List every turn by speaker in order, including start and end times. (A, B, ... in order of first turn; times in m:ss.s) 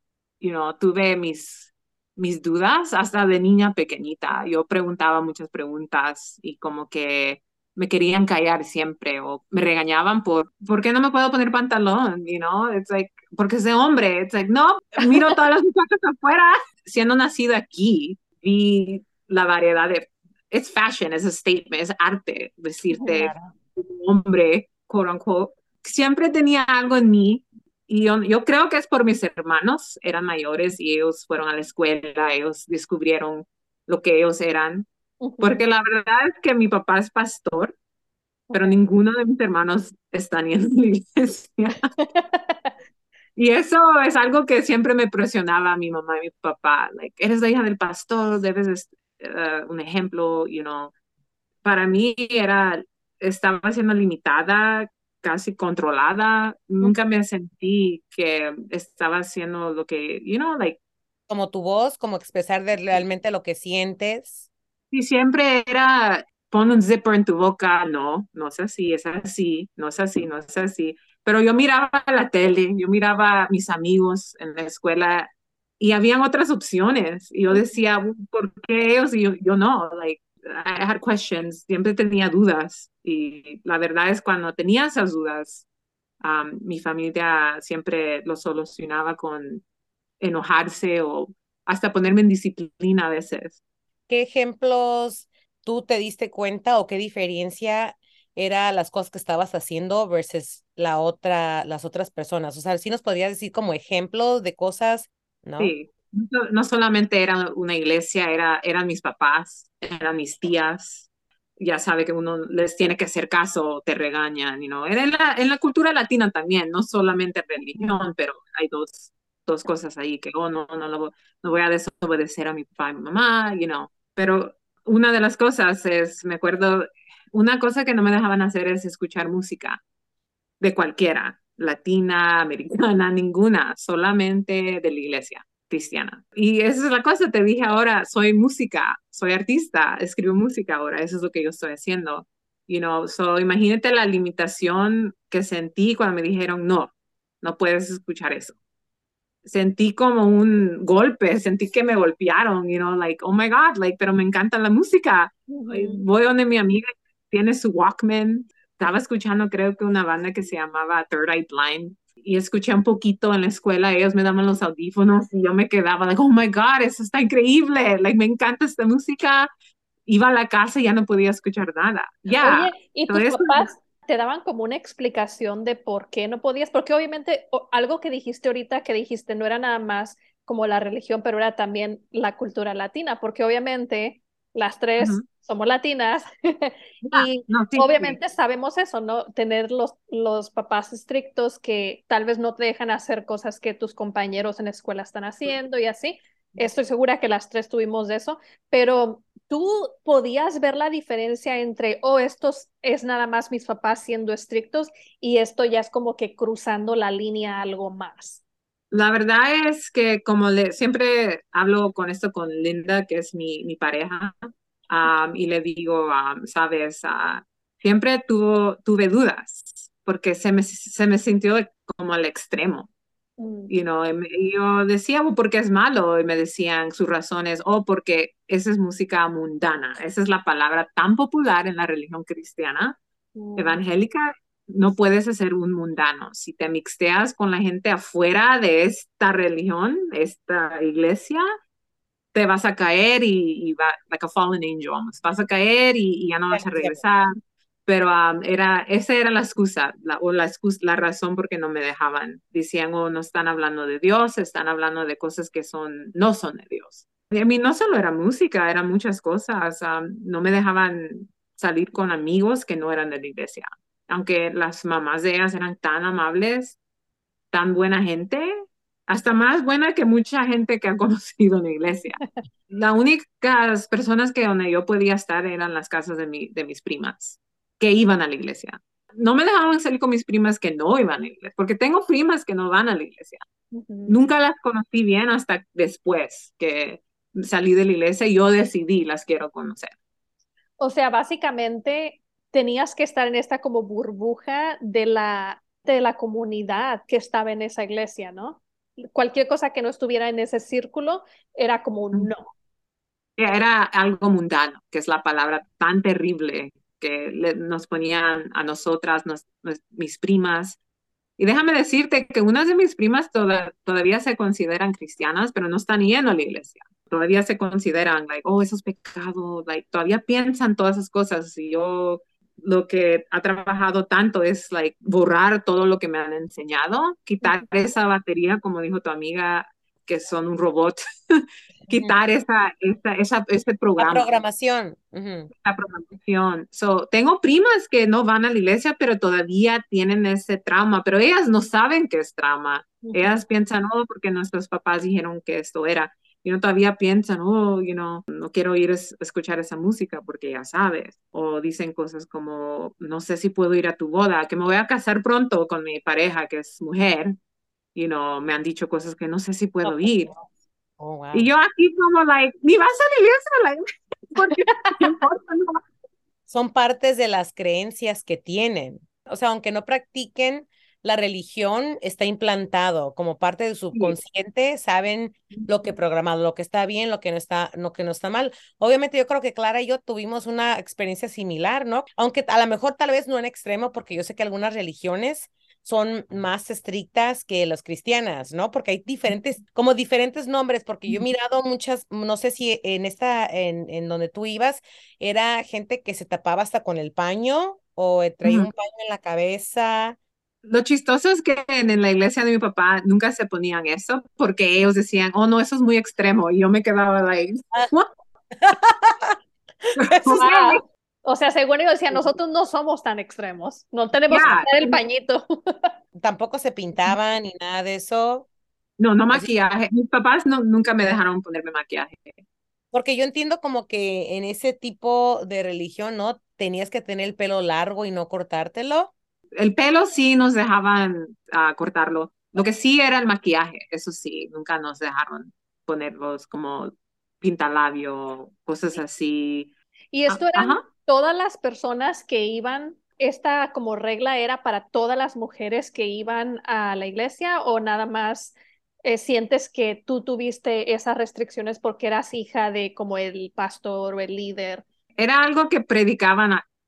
0:00.4-0:34.9 A
0:15.0-0:15.3 B
0:22.9-0:23.4 B
0:35.2-0:35.6 B
0:35.4-0:37.8 A
0:38.5-0:41.8 A
0:42.0-0:42.8 B
0:43.4-0:50.9 A
0:51.6-1:00.8 A
1:01.3-1:04.4 C
1:04.9-1:25.6 A
1:17.5-1:17.8 B
1:26.2-1:29.6 A
1:30.2-1:33.6 A
1:34.1-1:45.7 C
1:45.6-1:51.0 A
1:51.6-2:09.8 A
2:10.6-2:28.6 A
2:29.4-2:49.5 A
2:35.5-2:36.0 B
2:50.1-2:53.7 A
2:52.4-3:28.4 B
3:05.0-3:05.2 A
3:07.0-3:08.2 A
3:28.9-3:42.9 A
3:43.4-3:43.7 B
3:43.7-3:53.0 A
3:53.4-3:53.8 B
3:53.6-4:01.4 A
4:02.3-4:07.3 A
4:06.5-4:07.0 C
4:07.8-4:26.8 A
4:27.5-4:28.5 A
4:29.1-4:43.4 A
4:43.7-4:44.2 B
4:44.1-4:49.9 A
4:50.8-5:02.5 B
5:03.4-5:10.8 A
5:11.4-5:34.3 A
5:31.9-5:32.2 C
5:34.0-5:35.5 C
5:35.5-5:57.4 A
5:43.0-5:43.4 B
5:57.9-6:00.3 A
5:59.8-6:00.4 C
6:01.0-6:01.5 C
6:01.3-6:05.8 A
6:06.5-6:40.2 C
6:38.4-6:38.7 A
6:40.6-6:48.1 A
6:48.6-6:49.4 C
6:49.9-6:50.8 A
6:50.2-6:55.9 B
6:54.3-6:55.0 A
6:56.2-6:58.5 C
6:59.0-7:02.4 A
7:02.9-7:09.1 C
7:09.6-7:19.7 A
7:20.1-7:34.8 B
7:20.3-7:20.8 A
7:35.2-7:36.6 A